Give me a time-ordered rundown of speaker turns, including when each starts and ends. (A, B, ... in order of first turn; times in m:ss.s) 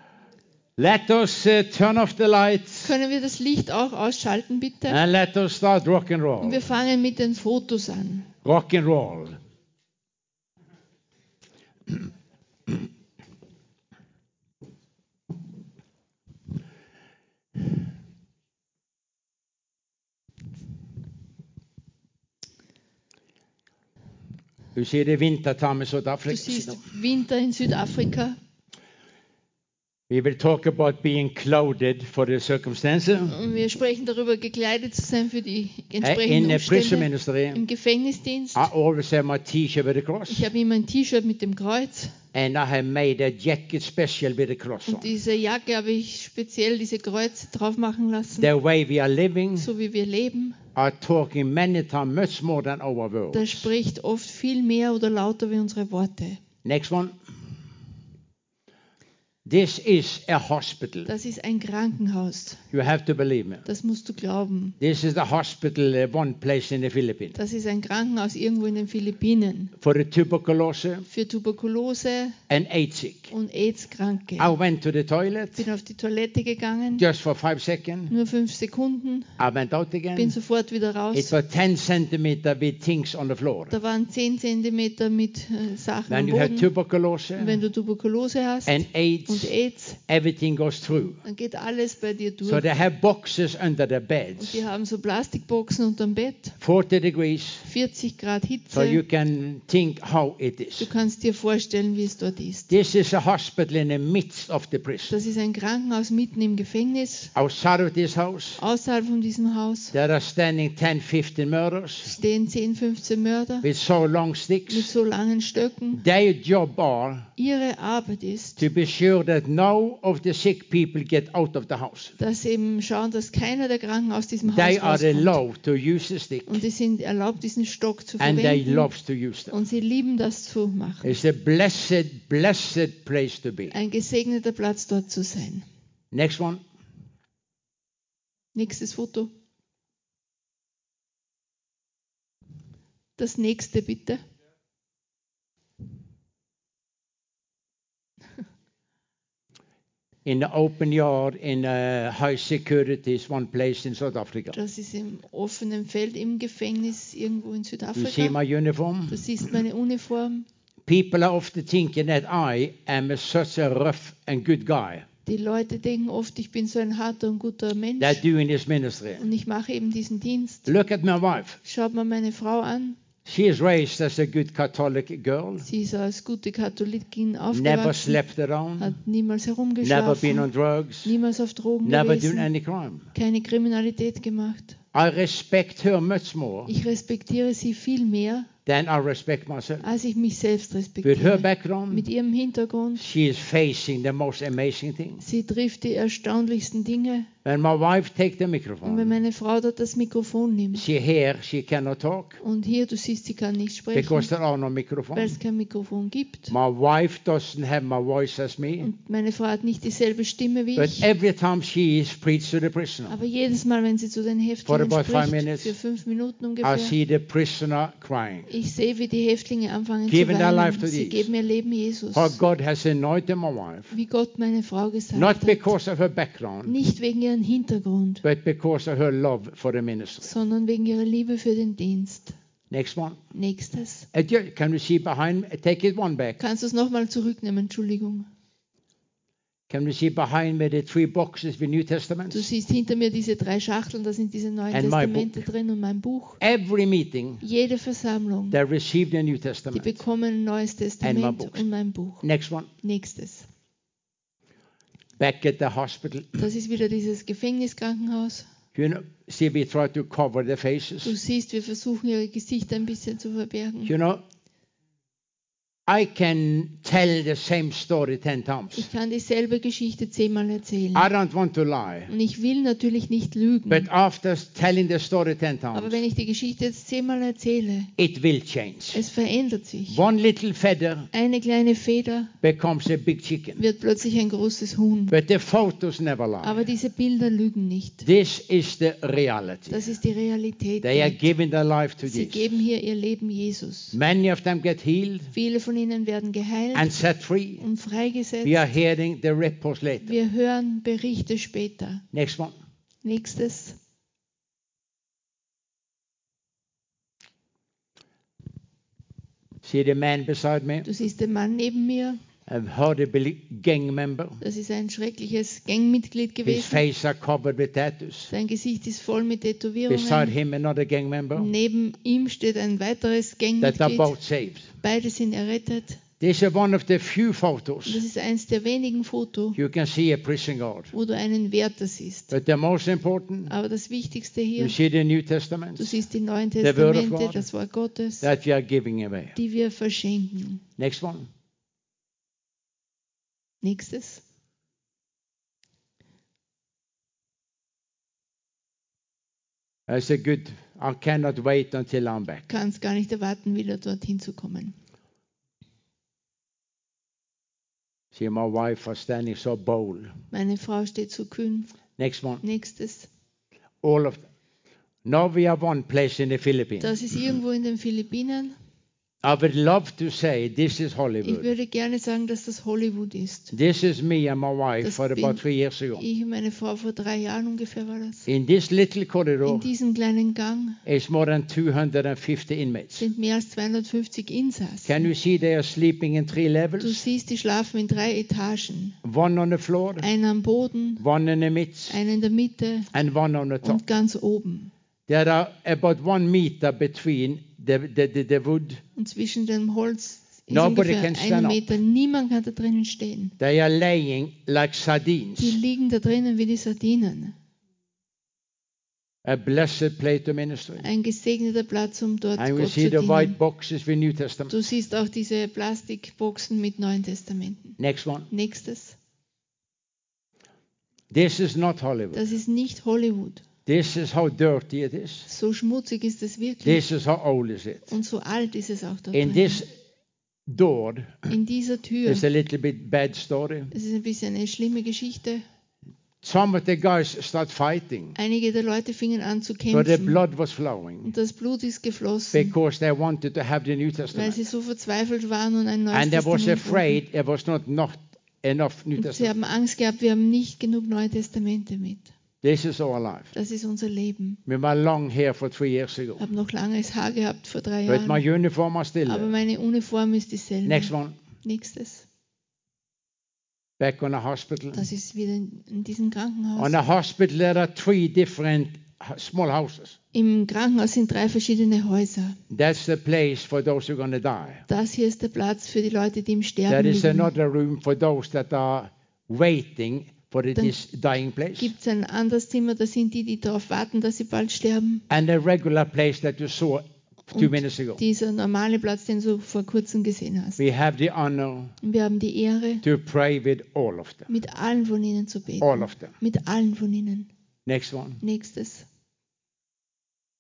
0:00.8-0:02.9 A
0:02.8-0:05.0 B
0:04.9-0:06.6 A
0:06.4-0:08.3 B
0:08.4-0:09.4 A
0:24.7-0:26.8 A
0:26.3-0:28.4 B
0:30.1-0:33.4 A
0:33.3-0:38.7 B
0:36.0-0:37.6 A
0:38.5-0:40.5 A
0:40.3-0:42.1 B
0:42.3-0:45.1 A
0:44.8-0:48.5 B
0:48.4-0:49.7 A
0:49.6-0:50.6 B
0:50.7-0:53.7 A
0:53.3-0:56.4 B
0:56.6-0:57.2 A
0:59.4-1:01.1 A
1:01.0-1:02.6 B
1:02.7-1:03.6 A
1:03.6-1:04.8 B
1:04.8-1:07.4 A
1:07.4-1:09.7 B
1:09.8-1:11.0 A
1:11.1-1:12.4 B
1:12.5-1:13.3 A
1:13.3-1:14.5 B
1:14.4-1:15.6 A
1:15.6-1:17.0 B
1:17.0-1:18.1 A
1:18.1-1:19.3 B
1:19.4-1:20.4 A
1:20.1-1:21.3 B
1:21.1-1:23.7 A
1:23.7-1:26.7 B
1:26.1-1:27.6 A
1:27.4-1:30.0 B
1:28.6-1:29.5 A
1:30.1-1:31.2 A
1:31.2-1:32.7 B
1:32.4-1:34.6 A
1:34.4-1:36.6 B
1:36.6-1:37.6 A
1:37.6-1:39.0 B
1:38.7-1:40.9 A
1:40.8-1:42.7 B
1:42.7-1:45.2 A
1:45.1-1:47.3 B
1:47.3-1:48.6 A
1:48.6-1:49.9 B
1:49.9-1:52.1 A
1:52.0-1:53.6 B
1:53.6-1:54.9 A
1:54.7-1:56.0 B
1:55.9-1:57.3 A
1:57.4-1:58.6 B
1:58.6-2:02.1 A
2:02.2-2:05.4 B
2:04.4-2:06.6 A
2:06.5-2:08.9 B
2:08.2-2:09.5 A
2:09.5-2:11.1 B
2:11.0-2:13.8 A
2:13.7-2:15.7 B
2:16.1-2:16.6 A
2:18.5-2:19.3 B
2:23.2-2:24.2 B
2:30.2-2:34.6 A
2:34.5-2:38.3 B
2:37.9-2:39.2 A
2:39.1-2:40.5 B
2:40.9-2:45.1 A
2:45.2-2:48.2 B
2:48.0-2:49.2 A
2:49.2-2:50.7 B
2:50.6-2:51.6 A
2:51.6-2:53.0 B
2:53.2-2:55.7 A
2:55.6-2:58.2 B
2:57.5-2:58.9 A
2:58.8-3:00.5 B
2:59.8-3:01.1 A
3:01.0-3:02.5 B
3:01.8-3:03.1 A
3:03.1-3:04.8 B
3:04.9-3:06.7 A
3:06.7-3:08.5 B
3:08.6-3:09.8 A
3:09.8-3:13.0 B
3:11.0-3:12.1 A
3:13.0-3:15.2 A
3:15.2-3:17.3 B
3:17.4-3:19.2 A
3:18.8-3:20.8 B
3:20.7-3:22.4 A
3:22.4-3:24.3 B
3:23.9-3:25.4 A
3:25.1-3:26.5 B
3:26.5-3:28.9 A
3:28.8-3:31.1 B
3:30.8-3:33.2 A
3:33.1-3:36.9 B
3:34.6-3:35.7 A
3:36.6-3:38.5 A
3:38.5-3:42.4 B
3:40.1-3:41.3 A
3:42.1-3:43.9 A
3:43.9-3:45.7 B
3:45.1-3:46.7 A
3:46.6-3:48.2 B
3:48.2-3:50.3 A
3:50.2-3:52.4 B
3:52.7-3:53.2 A
3:53.3-3:54.1 B
3:54.1-3:56.4 A
3:56.4-3:58.3 B
3:59.7-4:02.5 A
4:02.3-4:06.4 B
4:04.7-4:05.4 A
4:06.4-4:07.4 A
4:07.4-4:08.6 B
4:08.5-4:10.0 A
4:09.7-4:12.2 B
4:11.0-4:11.6 A
4:12.2-4:12.7 A
4:12.8-4:13.5 B
4:15.2-4:16.4 A
4:16.4-4:18.5 B
4:18.7-4:21.2 A
4:21.0-4:23.9 B
4:23.8-4:24.2 A
4:25.9-4:28.9 A
4:28.7-4:31.1 B
4:30.9-4:32.1 A
4:32.1-4:33.9 B
4:33.7-4:36.0 A
4:35.7-4:37.9 B
4:38.0-4:39.0 A
4:38.9-4:40.0 B
4:39.9-4:41.1 A
4:41.1-4:42.3 B
4:42.4-4:43.6 A
4:43.6-4:45.1 B
4:45.1-4:46.6 A
4:46.4-4:48.0 B
4:48.0-4:49.9 A
4:49.7-4:51.3 B
4:50.8-4:52.5 A
4:52.0-4:54.0 B
4:53.9-4:55.3 A
4:55.3-4:56.9 B
4:56.7-4:57.6 A
4:57.6-4:58.7 B
4:58.4-5:00.2 A
5:00.0-5:02.0 B
5:02.1-5:02.6 A
5:03.0-5:03.8 B
5:09.6-5:10.9 A
5:10.8-5:12.2 B
5:12.4-5:14.4 A
5:14.4-5:16.8 B
5:16.4-5:18.3 A
5:18.3-5:20.3 B
5:19.9-5:21.5 A
5:21.3-5:24.1 B
5:23.6-5:24.7 A
5:24.8-5:26.0 B
5:26.2-5:28.0 A
5:27.8-5:29.6 B
5:29.5-5:30.9 A
5:30.9-5:32.3 B
5:32.3-5:33.5 A
5:33.5-5:34.8 B
5:34.6-5:36.0 A
5:35.8-5:38.3 B
5:36.6-5:37.4 A
5:38.2-5:39.4 A
5:39.4-5:40.6 B
5:40.8-5:41.3 A
5:43.6-5:44.2 B
5:49.9-5:52.5 A
5:52.5-5:54.7 B
5:58.1-6:00.1 A
6:00.3-6:01.7 B
6:02.0-6:02.4 A
6:02.4-6:03.1 B
6:03.8-6:04.2 A
6:05.0-6:07.0 A
6:06.8-6:08.6 B
6:09.2-6:11.5 A
6:11.2-6:13.5 B
6:13.5-6:16.0 A
6:14.8-6:15.4 B
6:16.0-6:18.3 B
6:18.3-6:19.7 A
6:19.4-6:20.8 B
6:20.8-6:23.1 A
6:23.0-6:25.1 B
6:24.8-6:27.0 A
6:26.8-6:29.0 B
6:29.0-6:30.1 A
6:30.0-6:31.0 B
6:31.0-6:32.0 A
6:31.9-6:32.9 B
6:32.9-6:33.8 A
6:33.6-6:34.7 B
6:35.1-6:38.8 A
6:39.0-6:43.3 B
6:40.5-6:41.6 A
6:43.4-6:45.6 A
6:45.4-6:47.3 B
6:49.2-6:50.8 A
6:50.8-6:53.4 B
6:52.4-6:54.5 A
6:54.5-6:57.8 B
6:57.8-6:58.3 A
6:58.3-6:59.0 B
7:01.1-7:02.2 A
7:02.1-7:03.4 B
7:03.6-7:05.3 A
7:05.3-7:06.8 B
7:06.6-7:07.9 A
7:07.9-7:09.6 B
7:09.1-7:09.7 A
7:10.5-7:11.3 A
7:11.3-7:12.2 B
7:12.0-7:13.7 A
7:13.7-7:15.4 B
7:16.2-7:18.2 A
7:18.1-7:20.2 B
7:19.7-7:21.1 A
7:21.0-7:22.5 B
7:22.3-7:24.4 A
7:24.1-7:27.0 B
7:25.9-7:29.3 A
7:29.0-7:32.1 B
7:32.4-7:33.3 A
7:33.3-7:34.4 B
7:34.4-7:36.2 A
7:36.2-7:38.2 B
7:37.9-7:39.3 A
7:39.1-7:40.9 B
7:40.6-7:41.2 A
7:41.4-7:42.0 B
7:43.8-7:44.8 A
7:44.7-7:46.7 B
7:46.6-7:50.0 A
7:50.1-7:52.4 B
7:52.5-7:54.6 A
7:54.7-7:57.3 B
7:56.7-8:01.7 A
8:01.6-8:05.0 B
8:05.1-8:08.0 A
8:07.3-8:10.6 B
8:10.6-8:11.7 A
8:11.8-8:12.8 B
8:12.8-8:14.3 A
8:14.3-8:17.3 B
8:15.6-8:16.1 A
8:17.6-8:18.2 A
8:18.2-8:18.8 B